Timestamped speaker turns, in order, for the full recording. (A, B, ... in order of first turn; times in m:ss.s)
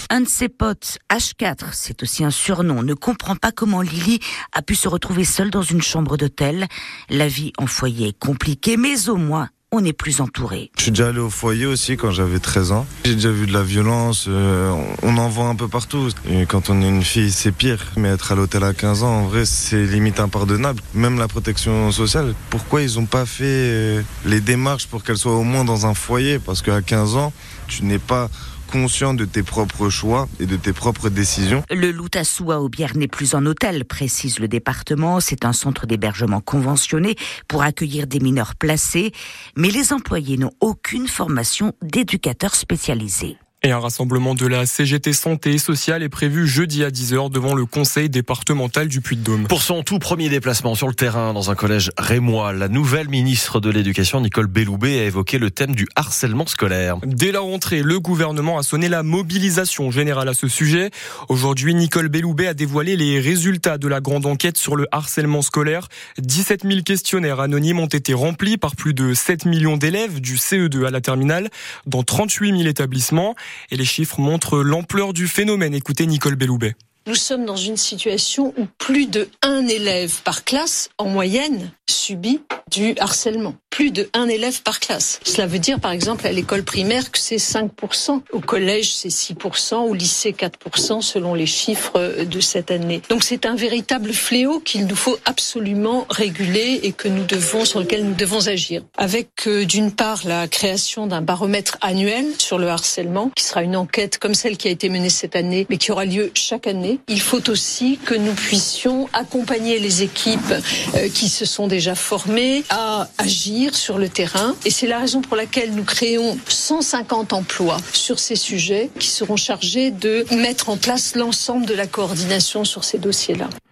0:00.1-0:10.7 A
0:10.8-0:31.6 B
0:31.7-0:43.4 A
0:43.6-0:49.5 C
0:49.5-0:57.0 D
0:57.0-1:16.7 C
1:17.0-2:03.5 E